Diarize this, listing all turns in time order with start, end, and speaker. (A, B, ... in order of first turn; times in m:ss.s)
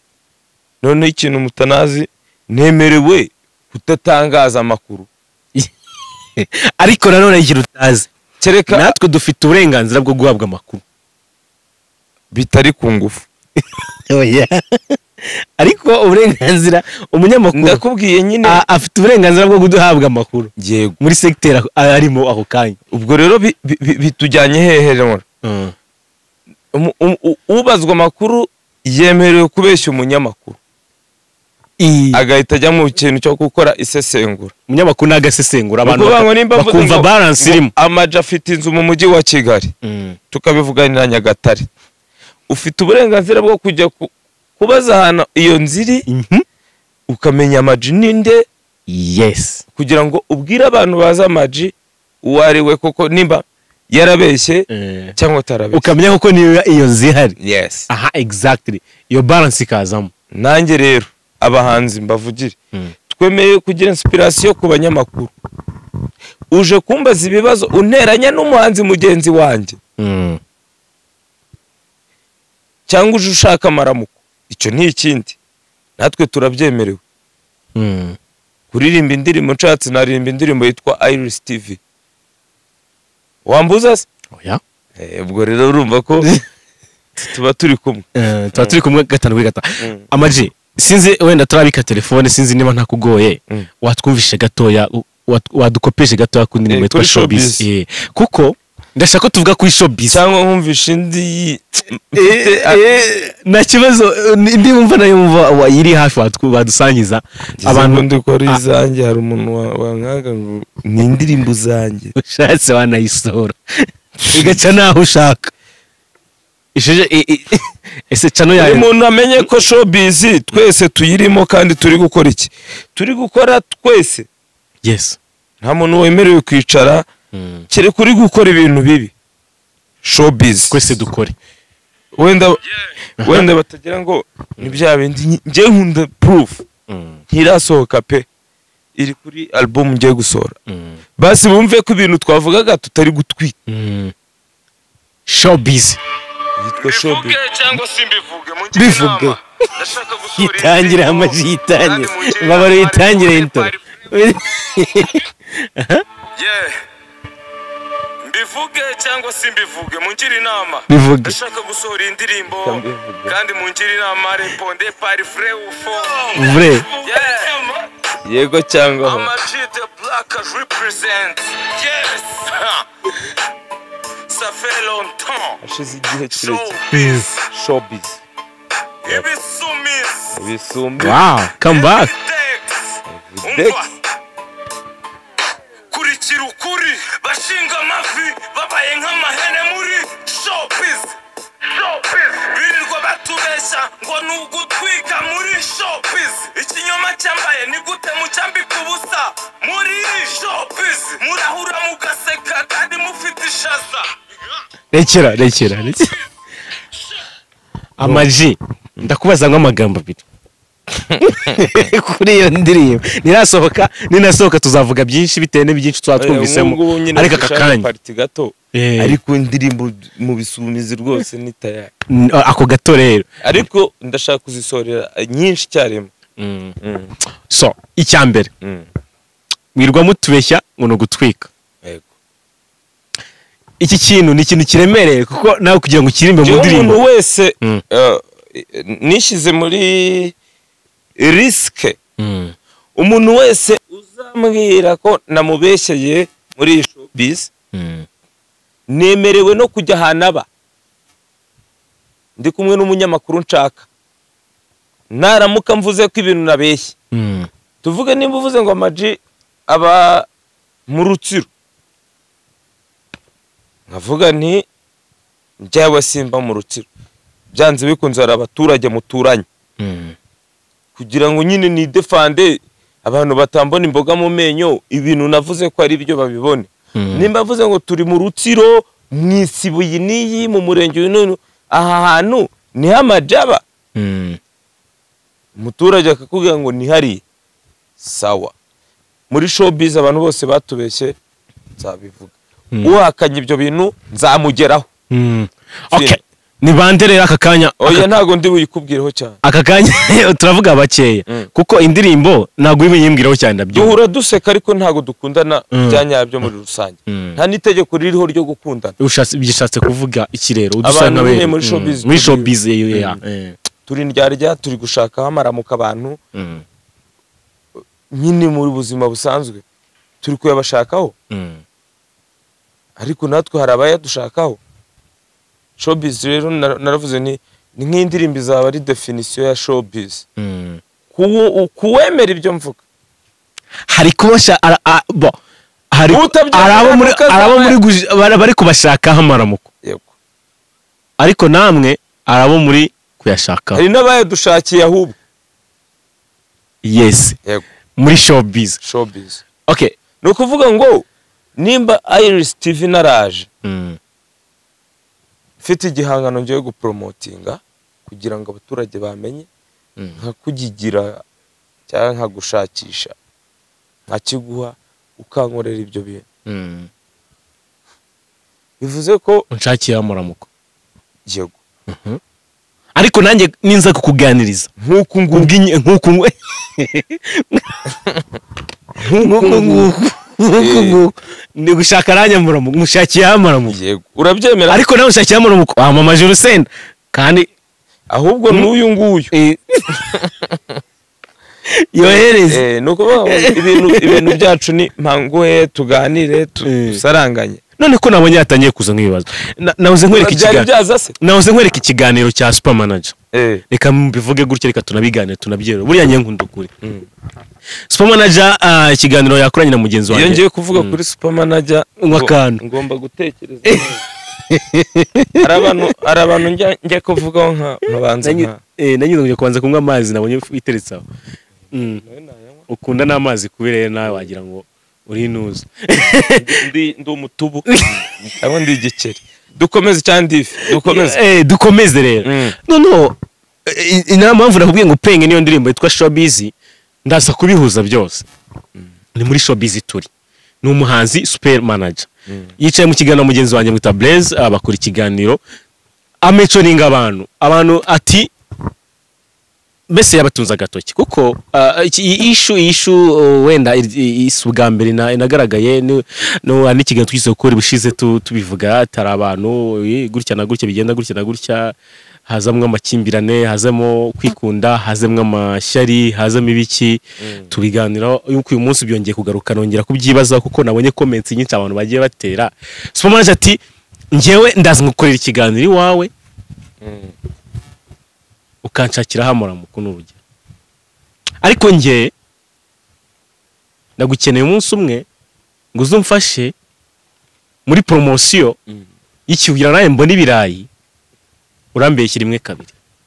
0:00.8-0:05.1 A
0:06.4-0:08.1 B
0:08.4-0:08.9 A
0:08.7-0:10.8 B
0:12.3-0:13.3 A
0:14.1-0:17.8 B
0:17.5-0:18.6 A
0:18.4-0:22.8 B
0:20.6-0:21.0 A
0:22.9-0:25.2 A
0:25.4-0:25.7 B
0:26.7-0:30.6 A
0:31.8-0:32.2 B
0:32.1-0:34.5 A
0:34.7-0:37.7 B
0:35.8-0:39.7 A
0:39.8-0:40.2 B
0:40.3-0:41.7 A
0:42.5-0:46.0 A
0:46.1-0:46.4 B
0:47.1-0:48.4 A
0:48.9-0:49.6 B
0:49.7-0:56.0 A
0:54.7-0:55.1 B
0:55.7-0:57.4 B
0:57.4-0:57.9 A
0:57.9-1:00.1 B
1:00.3-1:05.3 A
1:06.5-1:09.8 A
1:10.0-1:10.4 B
1:12.9-1:15.4 A
1:16.0-1:17.0 A
1:17.8-1:18.2 B
1:18.7-1:21.8 A
1:23.4-1:24.1 A
1:24.3-1:24.6 B
1:25.0-1:26.3 A
1:27.2-1:28.8 A
1:28.2-1:40.2 B
1:29.8-1:30.1 A
1:36.6-1:37.6 A
1:40.1-1:42.8 A
1:42.1-1:48.6 B
1:47.6-1:52.1 A
1:52.2-1:55.5 B
1:54.2-1:54.5 A
1:56.7-1:58.9 B
1:58.5-2:04.3 A
2:04.8-2:05.2 B
2:05.6-2:07.1 A
2:07.3-2:07.6 B
2:07.7-2:09.1 A
2:10.0-2:11.0 A
2:10.7-2:11.3 B
2:12.2-2:12.6 A
2:13.2-2:13.5 B
2:13.2-2:16.6 A
2:16.9-2:17.2 B
2:17.3-2:18.2 A
2:19.0-2:20.6 A
2:20.7-2:21.0 B
2:21.2-2:23.6 A
2:23.7-2:24.1 B
2:25.3-2:26.0 B
2:26.6-2:27.4 A
2:26.8-2:34.0 C
2:28.7-2:29.4 B
2:30.3-2:36.0 B
2:36.4-2:36.8 C
2:38.2-2:47.9 C
2:40.9-2:41.4 B
2:42.6-2:43.3 A
2:46.3-2:46.9 B
2:48.2-2:49.3 A
2:49.0-2:52.9 C
2:54.3-2:55.6 C
2:55.6-2:56.8 A
2:56.3-2:57.4 C
2:56.9-2:57.2 B
2:57.4-2:58.2 A
2:59.0-3:00.4 C
3:00.3-3:01.2 A
3:01.0-3:02.1 B
3:01.6-3:03.9 C
3:03.1-3:03.8 A
3:05.9-3:24.2 C
3:24.9-3:26.1 B
3:28.0-3:30.2 B
3:28.0-3:28.3 A
3:31.1-3:31.8 A
3:31.2-3:37.8 B
3:36.2-3:41.9 A
3:38.7-3:39.2 B
3:42.1-3:43.3 B
3:43.4-3:46.1 A
3:46.4-3:46.8 B
3:46.8-3:47.1 A
3:47.5-3:48.5 B
3:48.6-3:48.9 A
3:49.7-3:51.5 B
3:51.8-3:52.1 A
3:53.8-3:57.0 B
3:56.4-4:00.3 A
4:01.2-4:02.0 A
4:02.2-4:02.5 B
4:03.0-4:07.5 A
4:07.7-4:08.0 B
4:08.9-4:10.5 A
4:12.4-4:13.9 A
4:15.1-4:16.9 A
4:17.1-4:17.5 B
4:17.8-4:20.3 A
4:20.9-4:21.5 A
4:23.9-4:24.7 A
4:25.6-4:26.8 A
4:27.5-4:29.5 A
4:29.8-4:30.2 B
4:31.0-4:43.6 A
4:36.9-4:37.3 B
4:43.9-4:44.4 B
4:45.6-4:47.2 A
4:48.0-4:48.5 A
4:49.3-4:51.1 A
4:51.8-4:54.9 A
4:55.1-4:58.1 B
4:55.9-4:56.2 A
4:57.8-4:59.4 A
4:59.4-5:04.0 B
5:03.7-5:09.0 A
5:05.7-5:06.0 B
5:07.1-5:07.4 B
5:09.0-5:13.5 B
5:10.8-5:13.2 A
5:13.9-5:16.2 A
5:16.3-5:16.6 B
5:18.1-5:19.6 A
5:20.2-5:21.1 A
5:21.3-5:21.6 B
5:23.0-5:24.6 A
5:25.8-5:30.2 A
5:30.4-5:30.8 B
5:31.1-5:32.8 A
5:33.9-5:35.4 B
5:35.9-5:39.7 B
5:36.1-5:37.8 A
5:39.8-5:40.1 A
5:41.2-5:43.8 B
5:43.7-5:45.2 A
5:46.8-5:47.4 B
5:48.0-5:48.8 B
5:48.8-5:49.4 A
5:49.7-5:49.9 B
5:50.2-5:51.0 A
5:51.6-5:53.5 A
5:53.6-5:54.0 B
5:55.6-5:59.5 A
6:00.2-6:01.2 A
6:01.9-6:03.1 A
6:04.1-6:06.2 A
6:06.4-6:06.9 B
6:08.8-6:09.5 A
6:09.5-6:10.5 B
6:11.3-6:11.6 A
6:11.9-6:12.2 B
6:12.9-6:14.7 B
6:14.8-6:15.5 A
6:15.3-6:17.8 B
6:19.0-6:19.9 A
6:19.0-6:23.8 B
6:20.5-6:21.0 A
6:23.7-6:24.8 A
6:24.7-6:27.5 B
6:28.1-6:29.3 A
6:29.3-6:30.1 B
6:30.1-6:30.3 A
6:31.7-6:32.6 B
6:32.5-6:37.6 A
6:33.3-6:34.4 B
6:36.6-6:37.0 B
6:37.8-6:40.7 B
6:40.1-6:41.1 A
6:41.2-6:43.1 B
6:43.3-6:43.6 A
6:43.7-6:46.7 B
6:46.8-6:47.1 A
6:47.9-6:51.0 B
6:50.1-6:54.0 A
6:52.0-6:52.6 B
6:53.6-6:53.9 B
6:54.5-6:55.6 B
6:55.4-6:58.6 A
6:58.2-7:01.0 B
7:01.7-7:02.0 B
7:01.7-7:02.7 A
7:02.7-7:06.5 B
7:06.2-7:11.2 A
7:07.7-7:08.0 B
7:10.7-7:16.5 B
7:12.2-7:12.6 A
7:17.0-7:18.2 B
7:19.1-7:20.1 B
7:20.6-7:22.1 B
7:22.6-7:25.4 B
7:26.2-7:28.3 B
7:29.9-7:41.8 B
7:42.3-7:53.6 B
7:47.2-7:47.5 A
7:54.1-7:56.1 B
7:56.8-7:57.1 A
7:58.6-8:00.2 B
8:01.4-8:02.1 B
8:04.0-8:05.0 B
8:05.7-8:06.5 B
8:07.6-8:08.6 B
8:09.3-8:10.7 B
8:11.7-8:12.7 B